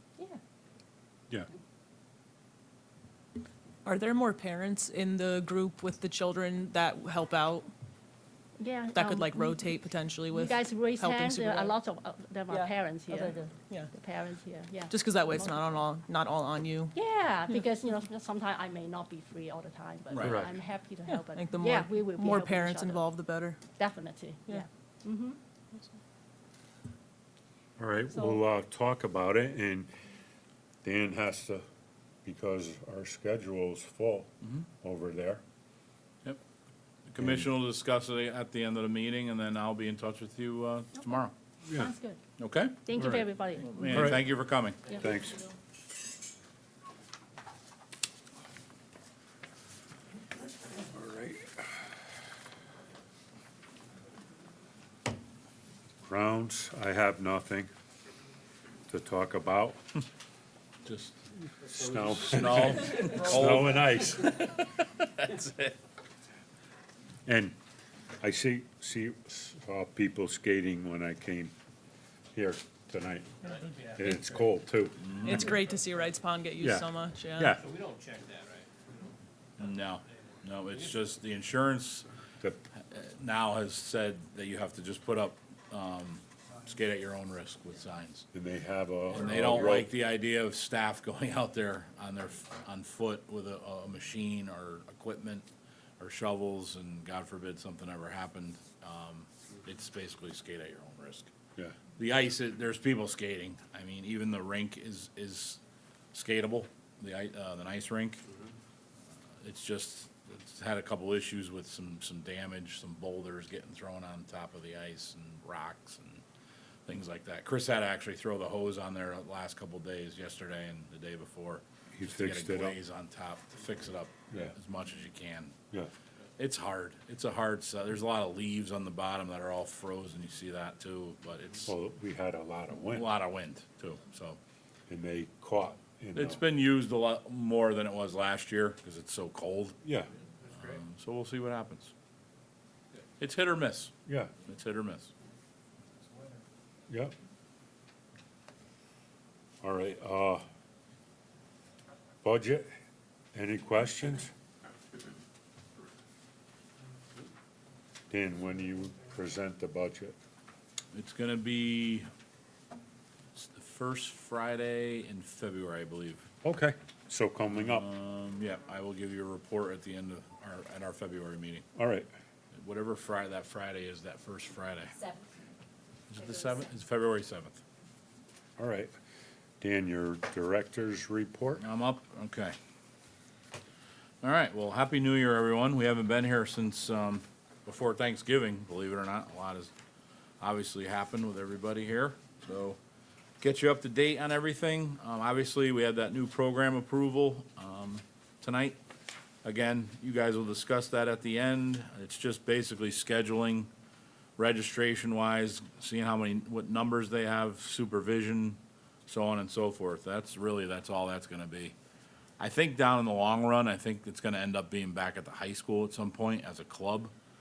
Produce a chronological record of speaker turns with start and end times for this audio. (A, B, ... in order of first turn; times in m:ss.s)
0:03.8-0:07.7 A
0:08.6-0:09.7 B
0:08.9-0:11.7 A
0:10.3-0:15.8 B
0:12.5-0:13.9 A
0:14.9-0:16.9 A
0:16.9-0:23.1 B
0:20.1-0:20.4 C
0:20.2-0:20.5 D
0:21.0-0:23.6 A
0:23.8-0:25.4 B
0:27.8-0:29.9 D
0:28.1-0:28.4 B
0:30.8-0:31.6 D
0:32.2-0:35.4 D
0:37.1-0:41.3 C
0:37.2-0:37.5 D
0:41.6-0:41.9 D
0:41.7-0:42.2 B
0:42.4-0:44.8 C
0:42.8-0:44.1 B
0:43.0-0:43.2 D
0:43.9-0:44.2 D
0:45.0-0:45.4 D
0:50.9-0:51.8 D
0:56.0-0:57.7 D
0:58.9-0:59.8 D
1:00.8-1:01.2 C
1:01.6-1:04.4 D
1:01.8-1:05.8 C
1:07.2-1:07.6 D
1:08.2-1:11.5 D
1:12.3-1:15.5 D
1:13.5-1:14.2 E
1:15.0-1:15.5 C
1:15.2-1:17.6 A
1:16.6-1:17.6 D
1:17.6-1:19.1 E
1:19.6-1:22.1 C
1:22.8-1:28.2 C
1:28.3-1:29.9 D
1:29.1-1:35.5 C
1:36.0-1:41.3 C
1:42.0-1:45.6 C
1:46.1-1:48.2 C
1:49.4-1:56.2 C
1:56.9-2:05.6 C
2:01.9-2:02.8 D
2:06.4-2:11.8 C
2:11.7-2:13.1 D
2:12.9-2:14.4 C
2:14.9-2:16.4 D
2:16.1-2:19.8 C
2:19.8-2:20.1 D
2:20.5-2:21.9 C
2:23.2-2:23.9 C
2:24.0-2:24.3 D
2:24.4-2:25.1 C
2:26.9-2:27.1 D
2:29.6-2:30.4 D
2:32.2-2:32.7 D
2:33.3-2:34.3 D
2:38.1-2:40.2 D
2:40.9-2:42.1 C
2:43.3-2:46.2 C
2:46.4-2:47.8 D
2:47.5-2:51.6 C
2:51.8-2:52.1 D
2:52.5-2:54.9 C
2:56.1-2:57.6 C
2:58.6-2:58.9 D
2:59.6-3:01.6 D
3:01.6-3:02.6 C
3:04.2-3:09.7 C
3:10.4-3:12.8 C
3:13.4-3:18.8 C
3:19.4-3:23.7 C
3:24.4-3:31.7 C
3:32.4-3:37.1 C